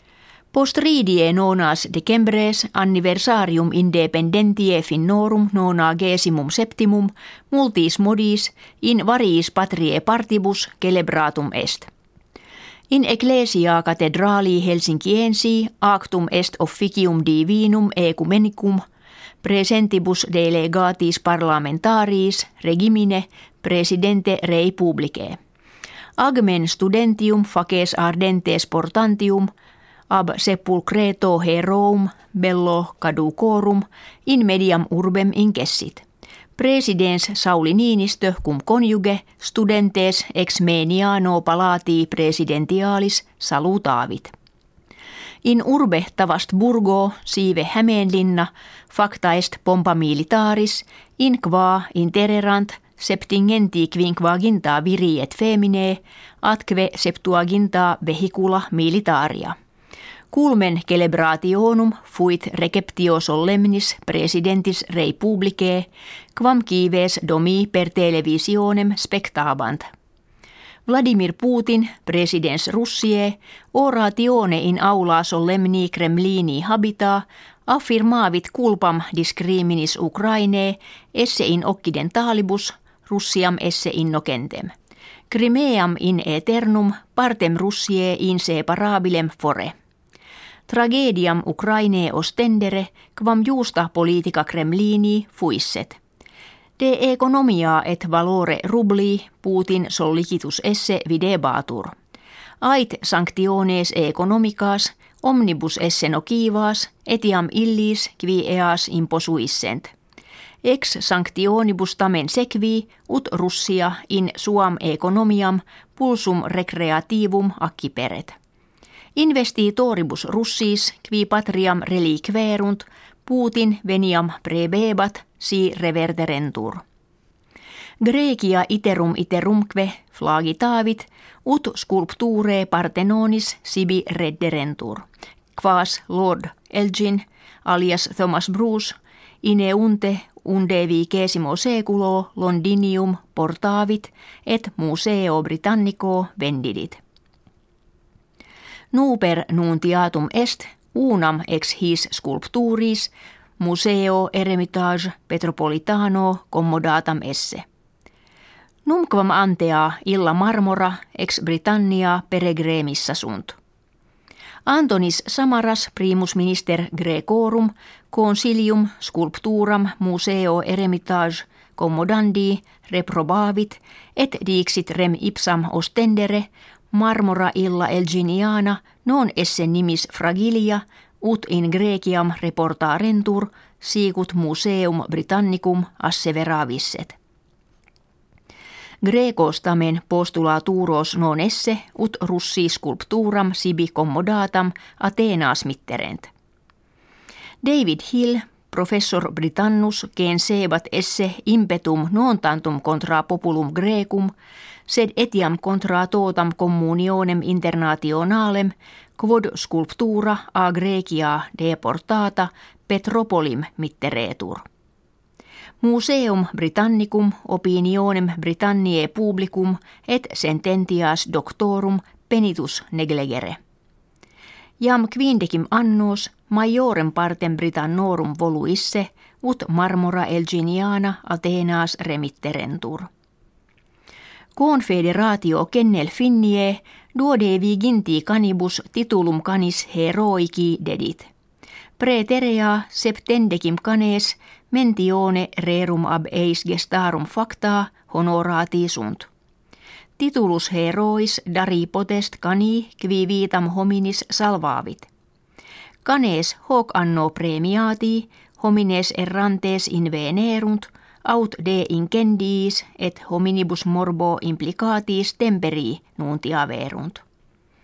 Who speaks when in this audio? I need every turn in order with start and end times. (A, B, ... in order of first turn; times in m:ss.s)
0:00.5-0:11.9 A
0:12.9-0:18.8 A
0:19.4-0:25.4 A
0:26.2-0:29.5 A
0:30.1-0:36.0 A
0:36.6-0:44.3 A
0:45.4-0:59.5 A
1:00.3-1:09.8 A
1:10.9-1:24.7 A
1:25.3-1:29.7 A
1:30.7-1:36.0 A
1:36.8-1:41.9 A
1:42.6-1:49.9 A
1:50.6-1:58.3 A
1:59.2-2:06.8 A
2:08.0-2:27.0 A
2:28.9-2:37.6 A
2:38.8-2:43.6 A
2:44.6-3:07.1 A
3:09.0-3:16.3 A
3:17.6-3:24.3 A
3:24.9-3:34.6 A
3:35.8-3:43.6 A
3:44.8-3:53.1 A
3:54.6-4:01.3 A
4:02.0-4:09.3 A
4:10.2-4:15.1 A
4:16.0-4:27.2 A